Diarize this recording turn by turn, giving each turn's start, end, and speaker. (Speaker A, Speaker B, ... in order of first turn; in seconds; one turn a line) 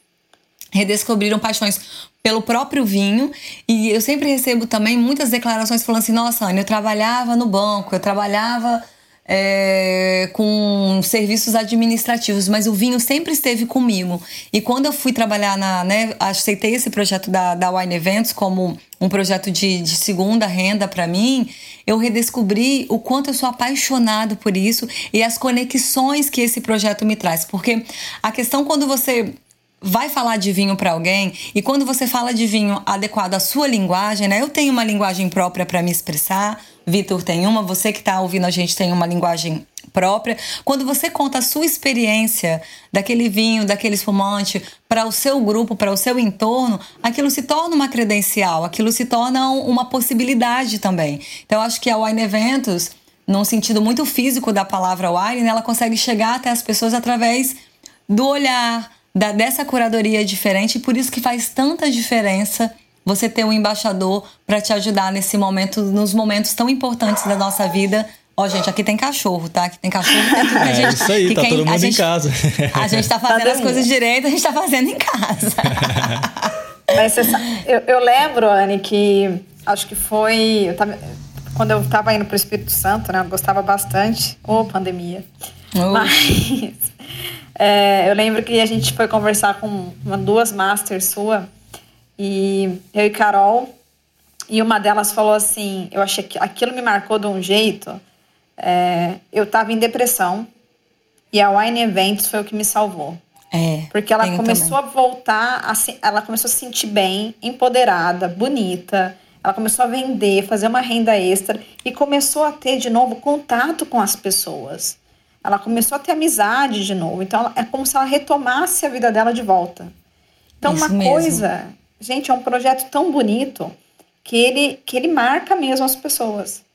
Speaker A: 0.7-57.6
Speaker A: 58.1-72.0
Speaker B: 70.3-70.9
Speaker C: 70.6-73.0
Speaker A: 72.7-76.5
Speaker B: 73.3-73.9
Speaker B: 76.9-81.0
Speaker B: 81.5-85.3
Speaker A: 85.8-86.1
Speaker B: 85.9-86.9
Speaker B: 87.6-91.5
Speaker B: 92.2-93.7
Speaker B: 94.5-98.0
Speaker B: 98.6-100.5
Speaker B: 101.3-103.2
Speaker A: 103.5-104.8
Speaker B: 103.9-119.9
Speaker B: 120.6-126.6
Speaker A: 120.6-121.4